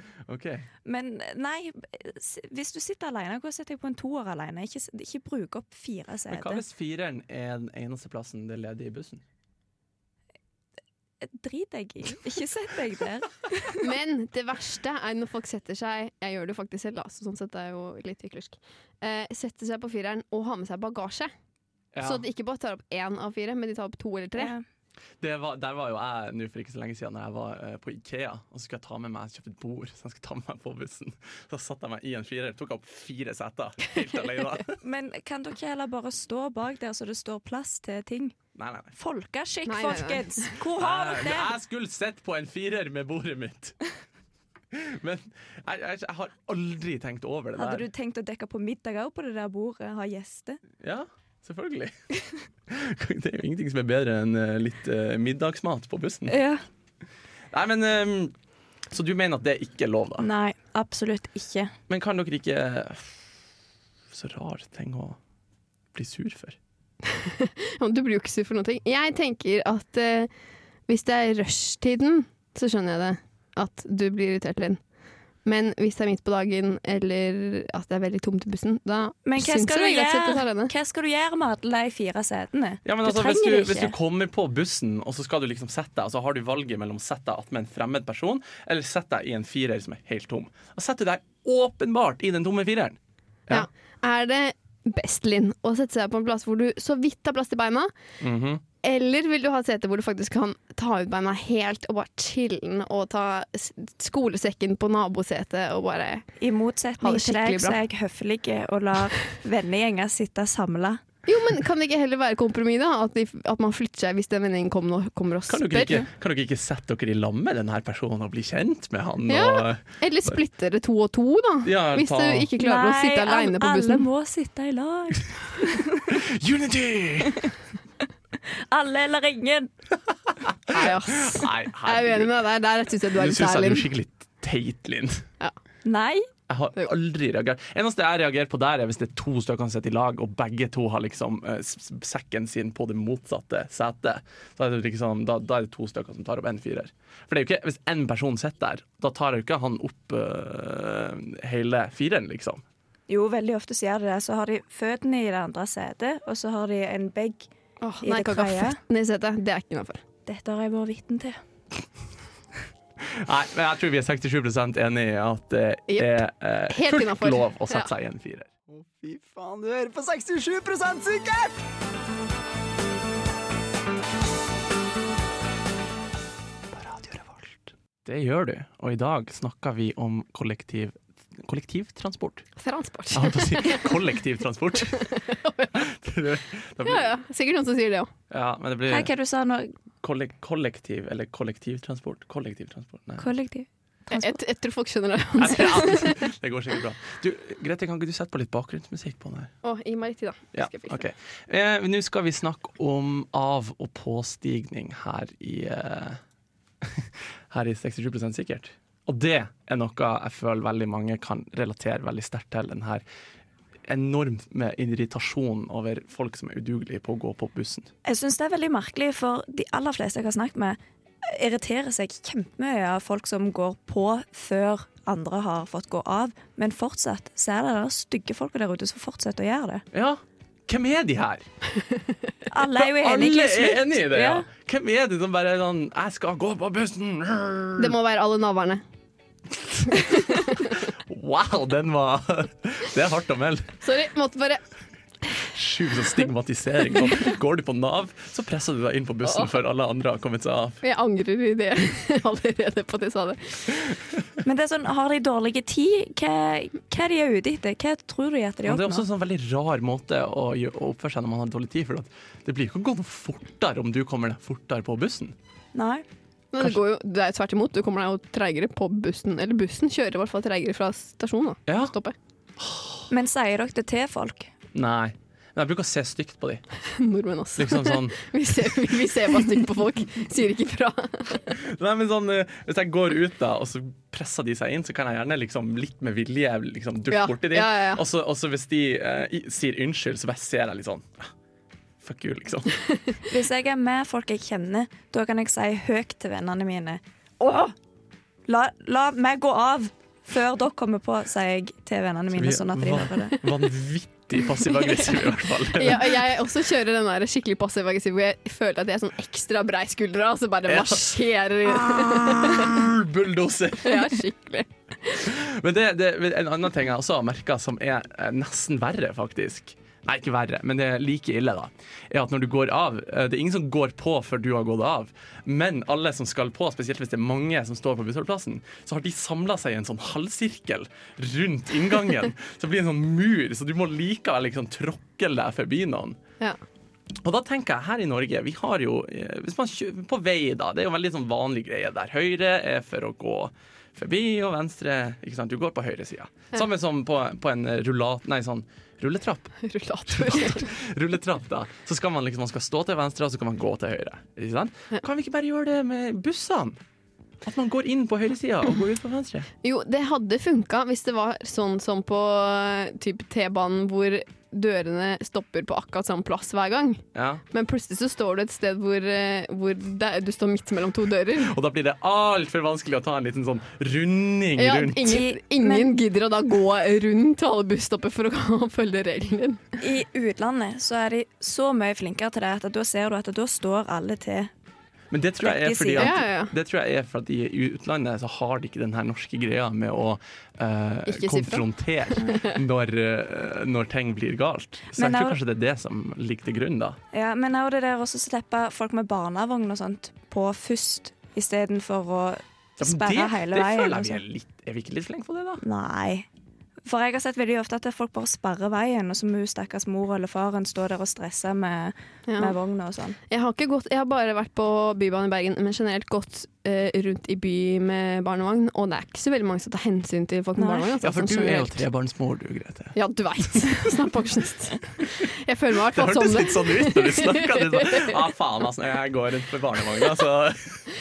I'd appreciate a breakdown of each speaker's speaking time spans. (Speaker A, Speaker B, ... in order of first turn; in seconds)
Speaker A: 0.2-0.7, 6.3-9.2, 21.9-22.2, 25.2-34.8, 38.5-38.9, 40.8-43.8, 44.7-47.9, 50.8-52.0, 52.7-56.4, 57.5-58.3, 58.9-60.3, 61.9-63.2, 64.1-65.2, 65.9-66.6, 82.8-93.7, 98.2-98.6, 115.5-120.4, 121.6-122.5, 126.1-127.5, 130.7-132.3, 133.1-135.2, 136.5-152.6, 163.0-168.5, 176.7-182.4, 183.1-185.1, 185.7-187.1, 188.3-189.1, 190.0-193.3, 195.4-199.5, 200.5-206.2, 206.8-213.0, 213.9-217.9, 229.9-231.4, 232.7-237.9, 239.6-243.8, 245.4-250.8, 258.6-265.3, 271.7-271.9, 272.6-273.0, 274.7-276.6, 277.6-278.2, 281.5-291.3, 292.0-292.8, 302.3-306.4, 310.7-314.2, 315.1-336.2, 337.2-349.5, 350.1-356.8, 357.4-359.5, 367.1-367.4, 371.4-375.2, 385.1-397.0, 402.8-405.6, 421.0-424.1, 425.9-430.8
Speaker B: 0.8-6.6, 11.2-13.9, 24.4-24.6, 34.8-38.4, 39.0-41.5, 47.5-50.6, 56.3-56.6, 60.2-61.7, 79.2-83.9, 106.4-111.0, 122.6-126.2, 127.2-127.5, 128.4-129.7, 135.8-136.3, 153.1-157.5, 158.0-158.8, 160.3-161.4, 188.9-189.7, 193.2-194.4, 218.0-229.8, 232.5-234.4, 254.4-259.0, 265.7-266.0, 273.1-274.5, 293.3-297.7, 298.5-303.4, 375.1-375.9, 379.8-384.5, 385.4-386.1, 394.9-395.4, 397.1-404.2, 405.6-406.3, 406.8-413.2, 420.6-420.9
Speaker C: 13.8-21.3, 22.0-24.5, 39.6-40.5, 67.1-70.3, 70.9-74.8, 75.4-80.7, 93.5-97.9, 98.8-106.3, 107.0-107.8, 111.2-116.0, 119.3-124.1, 130.7-133.9, 157.8-160.0, 165.9-167.9, 182.6-183.9, 184.9-185.8, 186.8-188.1, 194.1-196.2, 199.6-201.0, 237.8-238.8, 239.9-240.5, 243.8-244.6, 250.8-253.8, 266.5-272.1, 276.9-281.5, 287.1-288.0, 305.7-312.9, 313.8-314.7, 349.6-350.7, 359.6-371.5, 374.6-379.6, 386.0-386.5, 391.1-392.6, 412.3-412.5, 413.3-421.8, 422.9-428.2
Speaker D: 168.7-171.6